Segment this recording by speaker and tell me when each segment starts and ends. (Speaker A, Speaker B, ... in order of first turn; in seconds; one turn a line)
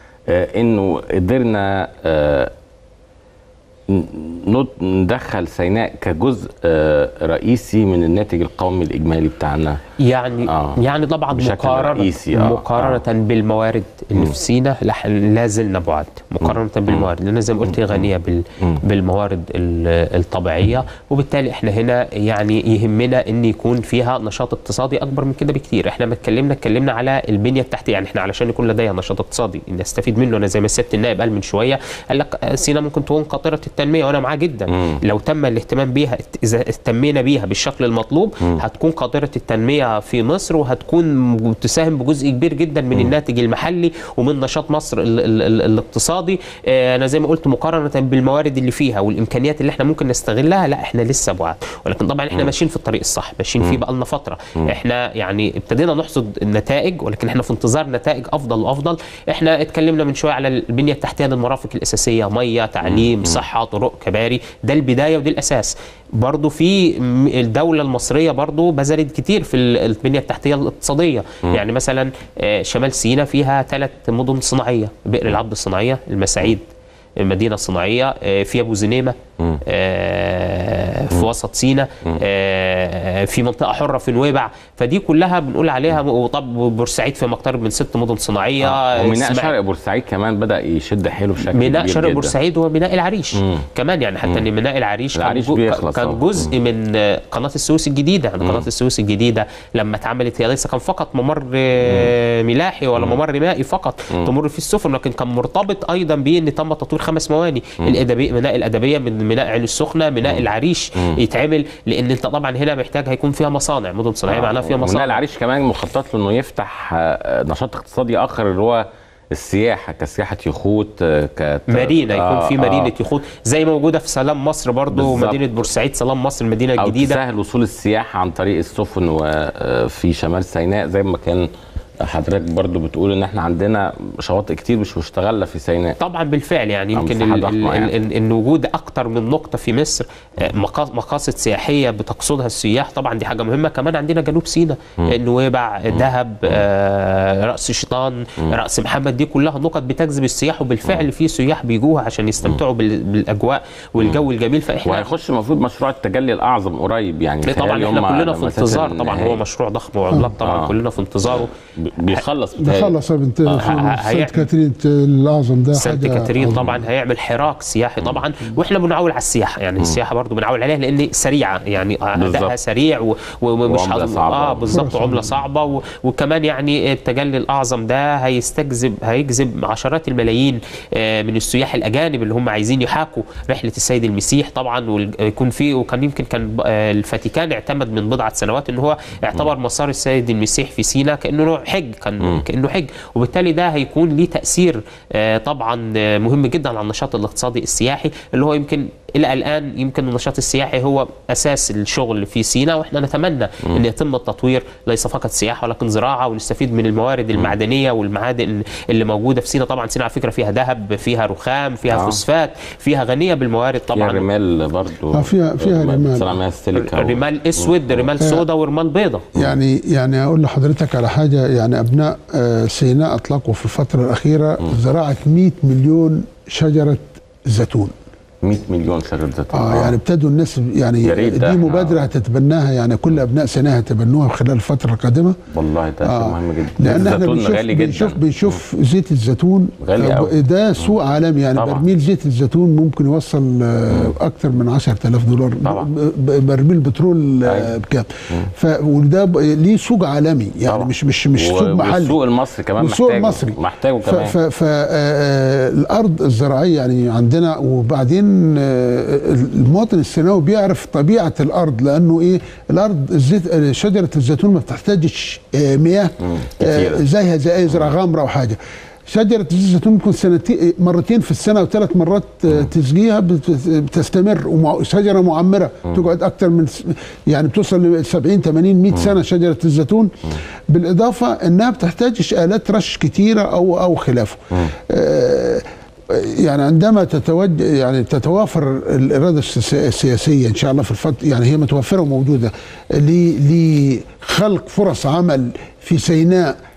Speaker A: 0.3-2.5
Speaker A: 3.9-9.8
Speaker B: 10.0-76.6
Speaker A: 10.5-10.8
Speaker A: 11.3-13.0
Speaker A: 16.4-17.1
Speaker A: 17.6-18.1
Speaker A: 34.7-35.0
Speaker A: 62.8-63.4
Speaker B: 77.2-79.2
Speaker B: 79.7-89.5
Speaker A: 88.6-92.3
Speaker B: 91.4-115.2
Speaker A: 93.3-93.7
Speaker A: 95.2-96.5
Speaker A: 98.4-98.7
Speaker A: 101.8-102.1
Speaker A: 110.2-111.2
Speaker A: 114.3-122.9
Speaker B: 121.7-127.2
Speaker A: 124.9-125.4
Speaker A: 126.8-131.5
Speaker A: 132.0-136.0
Speaker B: 136.0-155.1
Speaker A: 136.9-137.9
Speaker A: 145.9-146.7
Speaker A: 154.8-159.4
Speaker B: 157.4-161.5
Speaker A: 160.4-162.9
Speaker C: 162.6-166.7
Speaker A: 163.5-163.8
Speaker B: 163.5-164.5
Speaker B: 165.7-214.3
Speaker A: 166.4-166.8
Speaker A: 172.2-172.6
Speaker A: 173.7-174.8
Speaker C: 174.7-175.4
Speaker A: 211.9-212.2
Speaker A: 213.9-218.1
Speaker C: 215.1-216.4
Speaker B: 216.8-219.3
Speaker C: 218.2-218.4
Speaker C: 219.3-227.9
Speaker A: 228.4-230.0
Speaker C: 229.5-235.4
Speaker A: 231.0-232.0
Speaker A: 235.5-238.6
Speaker C: 236.0-252.2
Speaker A: 239.8-240.9
Speaker A: 241.6-241.9
Speaker A: 245.6-245.9
Speaker A: 247.4-247.7
Speaker A: 250.7-254.3
Speaker C: 252.8-280.1
Speaker A: 266.2-267.0
Speaker C: 280.7-296.6